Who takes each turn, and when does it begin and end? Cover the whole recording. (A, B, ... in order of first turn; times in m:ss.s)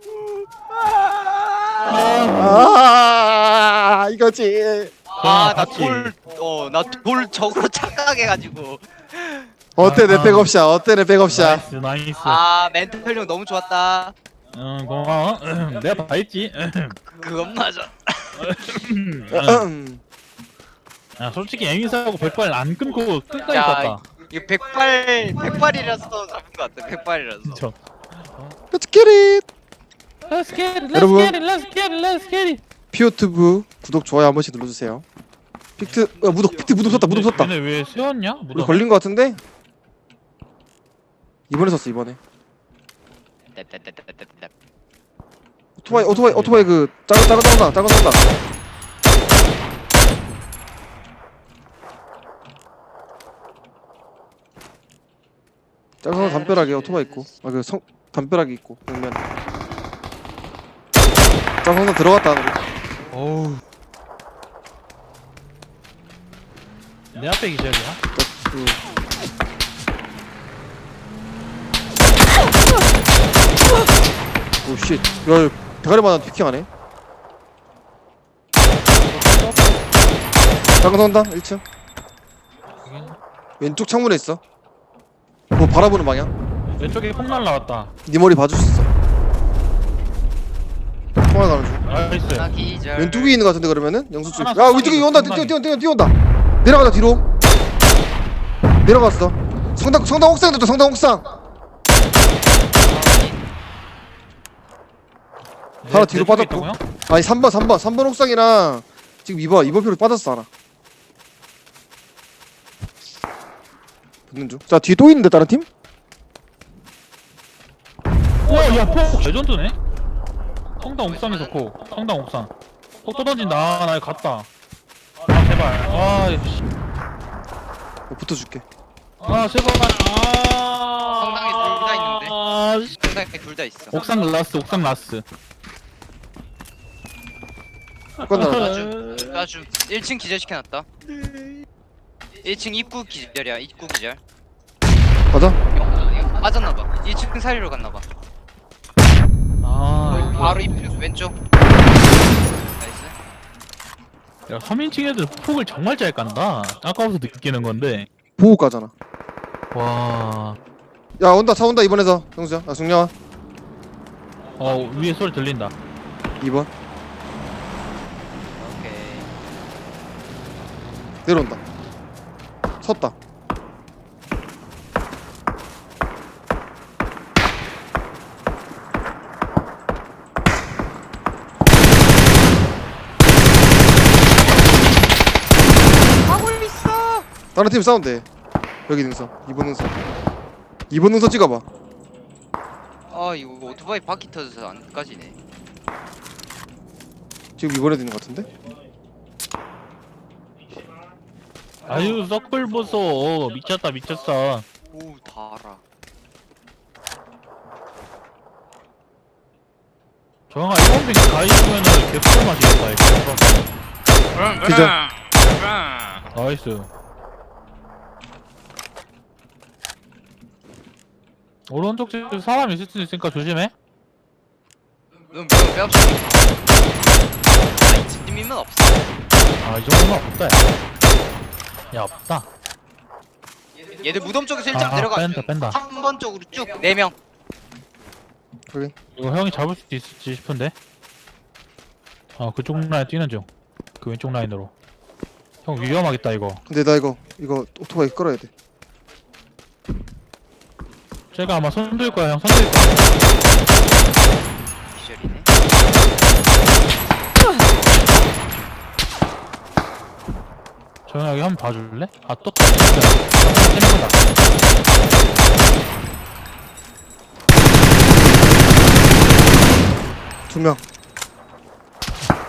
0:00.7-0:02.2 A
0:01.9-0:02.6 B
0:02.4-0:05.0 C
0:05.1-0:09.6 A
0:05.2-0:06.1 B
0:09.8-0:11.6 C
0:09.8-0:10.5 B
0:11.3-0:12.4 B
0:12.2-0:14.1 A
0:14.5-0:17.0 B
0:17.1-0:18.5 A
0:18.4-0:19.7 B
0:19.3-0:20.0 C
0:21.2-0:24.0 B
0:23.5-0:27.6 A
0:27.4-0:28.6 B
0:28.7-0:29.4 C
0:30.3-0:32.6 B
0:30.9-0:31.4 C
0:32.9-0:35.0 C
0:35.8-0:37.5 C
0:35.8-0:36.2 B
0:36.3-0:36.8 A
0:36.8-0:38.9 B
0:38.6-0:39.4 C
0:41.5-0:42.2 C
0:43.6-0:44.5 A
0:45.8-0:48.2 C
0:45.9-0:46.7 B
0:56.0-0:59.2 C
0:56.1-0:57.4 A
1:01.6-1:02.6 C
1:03.1-1:03.6 B
1:07.1-1:08.0 B
1:08.2-1:08.8 C
1:14.6-1:16.7 C
1:19.1-1:19.8 B
1:20.8-1:21.6 C
1:22.8-1:23.2 B
1:23.6-1:24.4 C
1:25.6-1:26.3 C
1:26.8-1:27.9 B
1:28.1-1:28.9 C
1:31.2-1:31.8 C
1:31.9-1:32.5 B
1:32.2-1:33.4 A
1:33.0-1:37.2 C
1:34.2-1:35.6 B
1:38.8-1:41.2 C
1:42.8-1:43.4 A
1:45.8-1:46.8 B
1:45.9-1:50.5 C
1:54.3-1:55.7 C
1:58.4-1:59.8 B
2:00.8-2:02.5 B
2:01.0-2:01.6 A
2:03.0-2:04.5 B
2:05.3-2:06.6 B
2:08.1-2:08.6 C
2:09.2-2:12.9 B
2:11.1-2:12.3 A
2:13.0-2:14.0 A
2:13.9-2:15.2 B
2:18.2-2:19.4 B
2:18.2-2:18.6 C
2:18.4-2:20.9 A
2:22.4-2:24.2 A
2:25.3-2:25.6 C
2:25.7-2:28.0 A
2:29.6-2:30.6 B
2:30.0-2:31.4 A
2:32.6-2:33.1 A
2:34.5-2:38.1 B
2:38.4-2:38.9 C
2:39.7-2:40.6 B
2:41.2-2:43.1 C
2:44.6-2:45.7 B
2:46.4-2:46.7 C
2:48.6-2:49.3 A
2:51.3-2:51.6 C
2:52.8-2:53.2 C
3:06.3-3:07.3 A
3:07.6-3:08.3 C
3:08.9-3:09.9 C
3:10.9-3:11.6 C
3:13.1-3:15.4 A
3:17.6-3:18.5 C
3:21.9-3:22.2 A
3:21.9-3:24.7 B
3:24.9-3:25.8 A
3:30.5-3:33.7 B
3:34.3-3:36.1 A
3:34.6-3:35.0 C
3:36.3-3:36.9 B
3:41.7-3:43.7 B
3:45.3-3:46.5 A
3:47.8-3:49.0 A
3:49.6-3:50.6 B
3:51.9-3:52.5 B
3:54.0-3:57.2 A
3:54.7-3:55.8 B
3:59.2-4:00.8 B
4:02.4-4:03.5 B
4:04.0-4:04.7 B
4:05.6-4:06.6 B
4:06.7-4:08.5 C
4:11.3-4:13.0 B
4:14.9-4:15.5 A
4:21.1-4:24.2 B
4:30.5-4:30.8 C